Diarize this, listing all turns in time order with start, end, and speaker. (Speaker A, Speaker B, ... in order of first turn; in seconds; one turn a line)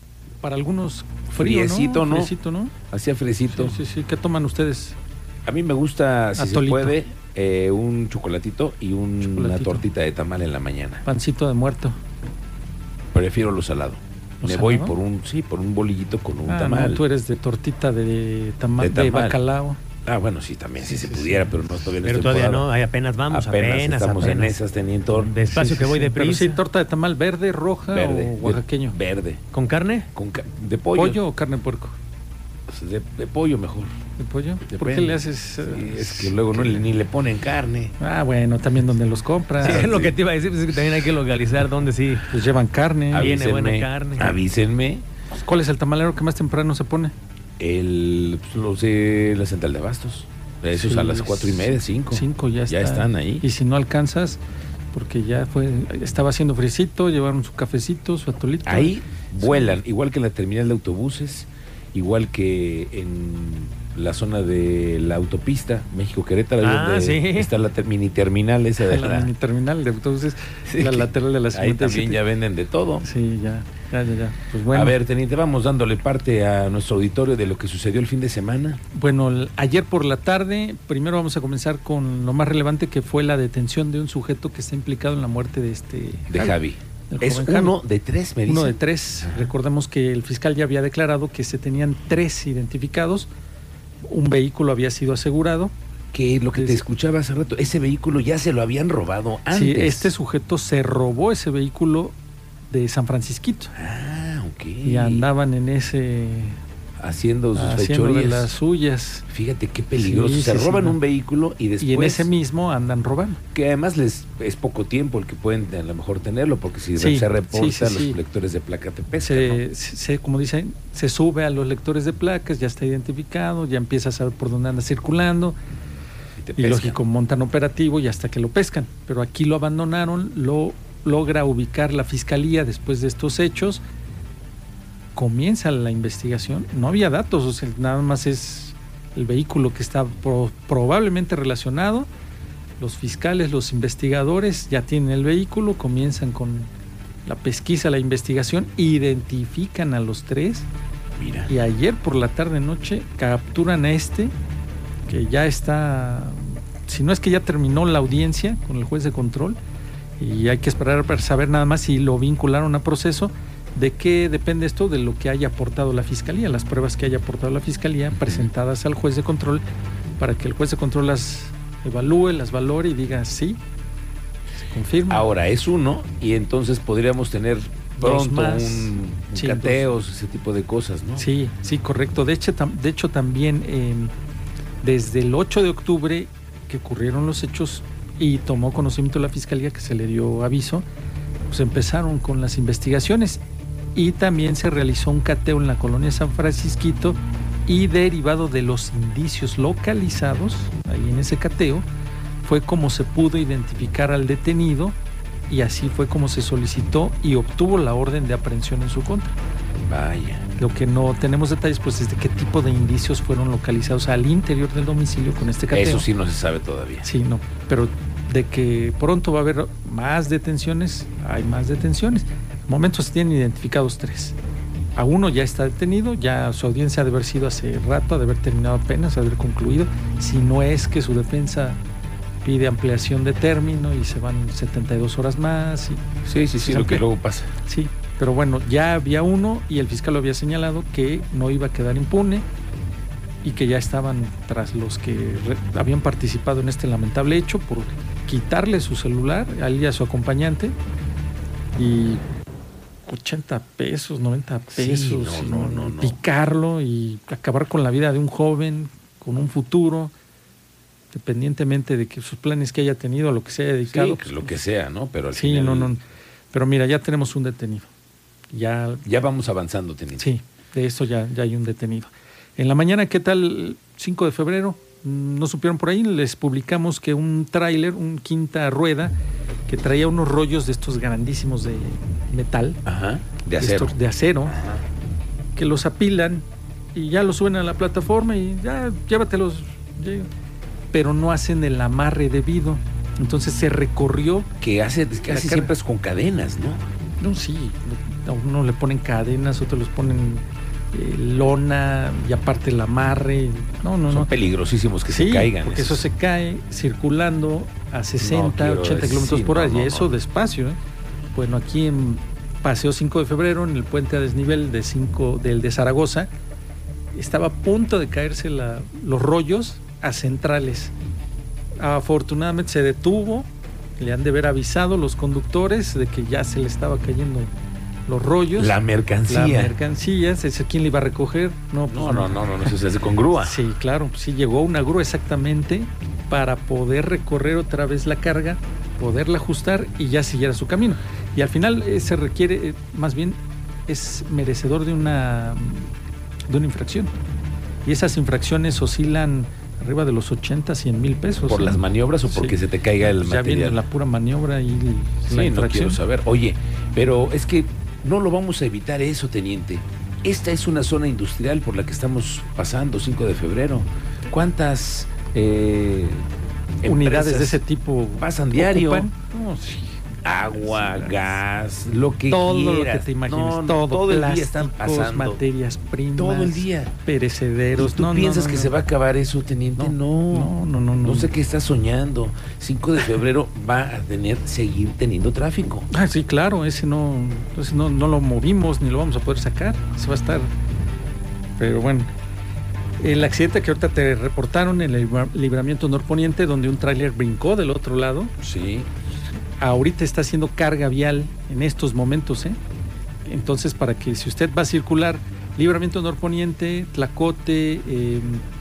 Speaker A: 0.4-2.8
Speaker B: 1.3-2.3
Speaker B: 2.9-3.8
Speaker A: 3.5-5.0
Speaker B: 5.5-11.1
Speaker A: 6.4-7.0
Speaker A: 9.2-9.9
Speaker A: 11.1-12.0
Speaker B: 13.1-17.0
Speaker A: 14.4-14.9
Speaker A: 16.5-19.8
Speaker B: 18.8-19.4
Speaker B: 20.0-22.7
Speaker A: 20.8-21.9
Speaker C: 22.0-24.6
Speaker B: 23.3-25.4
Speaker C: 25.1-26.6
Speaker A: 25.5-29.0
Speaker B: 27.9-29.4
Speaker C: 29.5-30.1
Speaker B: 30.1-31.2
Speaker A: 30.9-32.0
Speaker B: 32.7-33.9
Speaker A: 34.2-36.8
Speaker B: 34.6-38.0
Speaker A: 38.0-39.9
Speaker B: 39.6-40.2
Speaker C: 39.6-42.3
Speaker A: 42.3-43.4
Speaker B: 43.1-45.0
Speaker C: 43.1-44.4
Speaker A: 45.4-47.1
Speaker B: 47.6-53.5
Speaker A: 50.7-54.4
Speaker A: 54.9-59.8
Speaker B: 58.6-69.3
Speaker C: 66.6-67.5
Speaker A: 68.8-72.2
Speaker B: 70.7-73.1
Speaker A: 73.0-75.0
Speaker B: 74.7-78.8
Speaker A: 78.9-86.6
Speaker B: 86.3-89.5
Speaker A: 87.1-87.8
Speaker A: 88.5-93.3
Speaker A: 94.1-95.7
Speaker B: 96.1-100.1
Speaker A: 96.5-96.8
Speaker A: 99.5-102.2
Speaker A: 102.7-103.7
Speaker B: 103.8-105.3
Speaker A: 104.8-106.6
Speaker B: 107.0-108.5
Speaker A: 107.5-109.3
Speaker B: 109.3-112.3
Speaker A: 110.0-111.0
Speaker A: 111.8-113.4
Speaker B: 113.5-119.6
Speaker A: 117.0-118.2
Speaker A: 119.2-125.6
Speaker B: 126.4-127.0
Speaker A: 126.6-133.8
Speaker A: 135.2-142.1
Speaker A: 142.8-146.7
Speaker A: 147.2-150.7
Speaker B: 151.2-151.5
Speaker A: 151.5-154.3
Speaker A: 155.1-159.6
Speaker A: 160.2-169.6
Speaker A: 170.2-173.6
Speaker A: 174.6-175.3
Speaker B: 175.1-181.3
Speaker A: 178.0-179.9
Speaker A: 181.2-184.1
Speaker A: 184.8-190.8
Speaker A: 191.5-193.4
Speaker A: 193.9-201.8
Speaker A: 202.4-205.0
Speaker A: 205.5-209.3
Speaker B: 209.9-210.5
Speaker A: 210.6-216.1
Speaker B: 215.7-217.1
Speaker A: 217.0-224.4
Speaker A: 225.0-231.8
Speaker A: 232.4-236.0
Speaker B: 236.2-237.5
Speaker A: 236.6-237.0
Speaker A: 237.7-242.4
Speaker A: 243.4-250.8
Speaker A: 251.7-252.2
Speaker A: 253.1-260.1
Speaker B: 254.7-256.2
Speaker A: 261.1-264.6
Speaker B: 263.9-265.9
Speaker A: 265.3-267.9
Speaker A: 268.5-269.0
Speaker B: 269.0-270.3
Speaker A: 270.2-279.1
Speaker A: 279.7-282.8
Speaker B: 282.9-284.0
Speaker A: 283.6-284.6
Speaker B: 284.5-284.8
Speaker A: 285.6-290.3
Speaker A: 290.9-294.5
Speaker B: 294.6-296.9
Speaker A: 295.3-295.7
Speaker A: 297.2-304.3
Speaker B: 304.1-306.1
Speaker A: 305.1-310.8
Speaker B: 308.2-310.1
Speaker A: 311.3-316.3
Speaker A: 317.1-320.9
Speaker A: 321.8-327.5
Speaker A: 328.1-332.8
Speaker B: 328.5-329.8
Speaker B: 331.9-333.6
Speaker A: 333.4-345.9
Speaker A: 346.5-347.1
Speaker A: 347.9-356.0
Speaker B: 351.5-353.8
Speaker B: 355.3-366.3
Speaker B: 366.8-367.6
Speaker A: 366.8-371.4
Speaker B: 368.2-369.1
Speaker B: 370.2-375.4
Speaker A: 372.3-378.8
Speaker B: 376.2-377.0
Speaker B: 377.8-385.9
Speaker A: 379.8-381.3
Speaker A: 385.9-390.5
Speaker A: 391.6-392.1
Speaker A: 393.0-398.3
Speaker B: 398.4-398.9
Speaker A: 399.6-402.6
Speaker A: 403.2-408.4